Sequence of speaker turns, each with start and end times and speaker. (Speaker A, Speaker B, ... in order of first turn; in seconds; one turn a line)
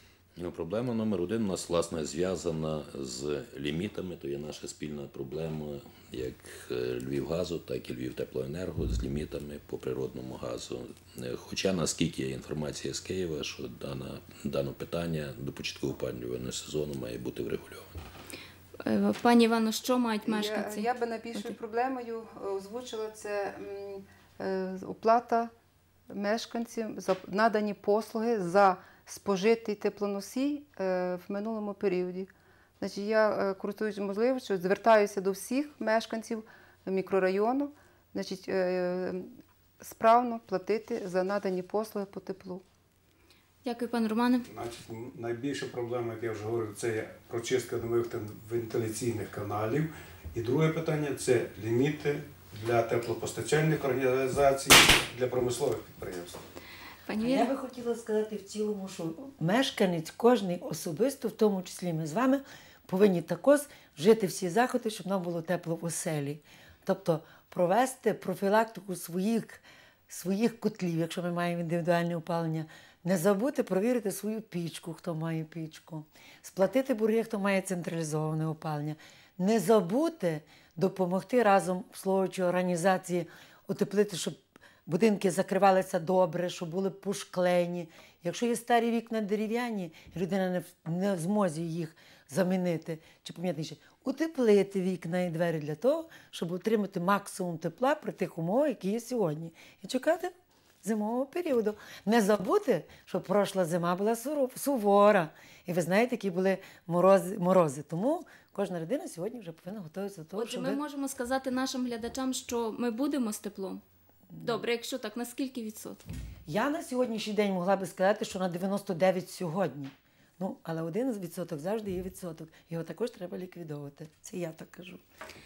Speaker A: 0.4-17.9
Speaker B: 18.8-21.5
Speaker C: 20.2-25.5
Speaker C: 26.1-42.6
Speaker B: 43.6-44.5
Speaker D: 44.5-56.4
Speaker B: 57.1-57.5
Speaker E: 57.2-100.3
Speaker E: 100.8-110.8
Speaker B: 110.3-113.8
Speaker E: 114.3-114.6
Speaker B: 114.4-116.0
Speaker E: 116.5-125.0